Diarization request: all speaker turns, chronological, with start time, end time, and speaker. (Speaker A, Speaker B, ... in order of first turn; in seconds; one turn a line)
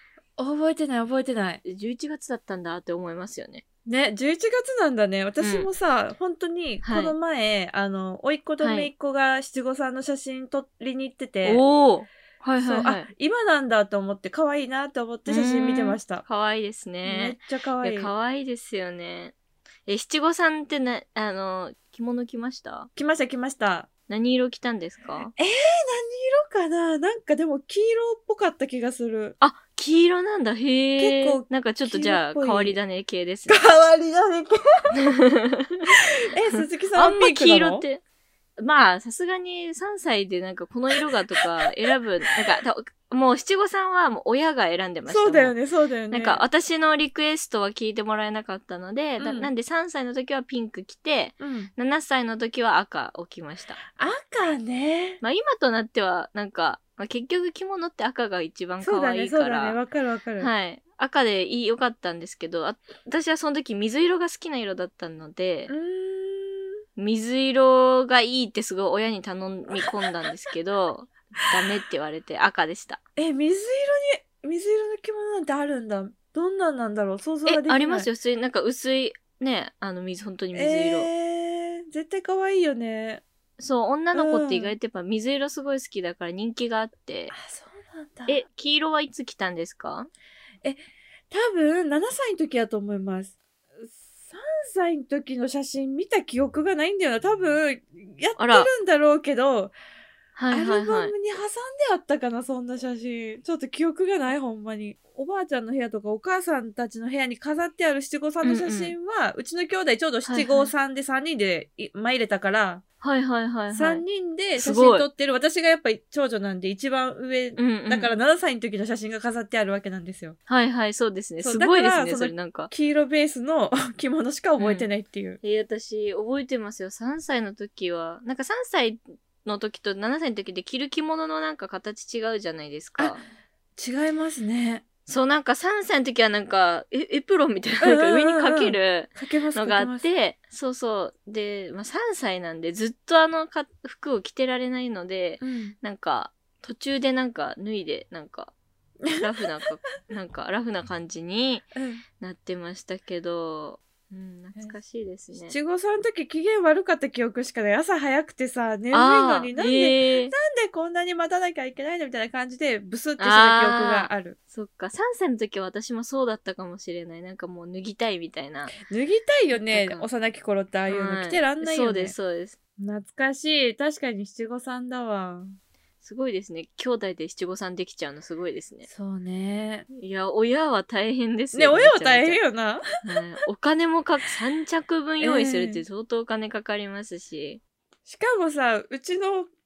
Speaker A: 0.4-1.6
Speaker B: 1.6-3.6
Speaker A: 3.9-11.6
Speaker B: 5.4-5.7
Speaker B: 6.8-7.2
Speaker B: 8.6-8.9
Speaker B: 11.4-13.1
Speaker A: 12.6-16.2
Speaker B: 15.3-19.4
Speaker A: 17.1-18.1
Speaker B: 19.9-22.9
Speaker A: 23.0-23.9
Speaker B: 24.1-25.3
Speaker A: 25.4-29.4
Speaker B: 29.4-33.6
Speaker A: 31.0-32.8
Speaker A: 33.5-34.9
Speaker B: 34.9-36.0
Speaker A: 36.2-37.9
Speaker B: 37.0-38.0
Speaker B: 38.6-45.5
Speaker A: 45.1-46.4
Speaker B: 46.1-53.8
Speaker A: 49.2-49.5
Speaker A: 51.4-51.7
Speaker A: 53.9-55.2
Speaker B: 55.2-59.8
Speaker A: 58.8-60.5
Speaker B: 60.4-65.7
Speaker A: 65.7-66.8
Speaker B: 67.0-73.0
Speaker A: 73.2-78.1
Speaker B: 77.5-81.1
Speaker A: 80.5-83.2
Speaker B: 83.6-87.3
Speaker A: 84.1-84.8
Speaker A: 87.3-88.4
Speaker B: 88.3-90.1
Speaker A: 90.6-93.3
Speaker A: 93.8-99.7
Speaker B: 98.4-98.7
Speaker B: 100.4-101.1
Speaker A: 100.5-112.8
Speaker B: 108.4-109.0
Speaker B: 110.3-110.7
Speaker B: 113.0-114.0
Speaker A: 113.7-120.4
Speaker B: 114.6-115.1
Speaker B: 117.6-118.1
Speaker B: 120.5-122.7
Speaker A: 121.4-125.4
Speaker B: 124.6-124.9
Speaker B: 125.4-133.2
Speaker A: 133.8-134.8
Speaker B: 135.1-148.5
Speaker A: 137.8-140.1
Speaker A: 145.4-145.8
Speaker A: 149.0-149.3
Speaker B: 149.1-151.7
Speaker A: 151.7-152.0
Speaker B: 152.2-155.6
Speaker A: 155.5-164.4
Speaker B: 158.9-160.3
Speaker B: 163.2-168.8
Speaker A: 168.8-172.2
Speaker B: 169.6-170.1
Speaker B: 170.9-172.6
Speaker A: 172.8-175.5
Speaker B: 176.0-178.9
Speaker A: 178.9-179.9
Speaker B: 179.9-182.4
Speaker A: 181.5-182.8
Speaker B: 183.0-187.6
Speaker A: 185.2-185.8
Speaker A: 188.1-189.5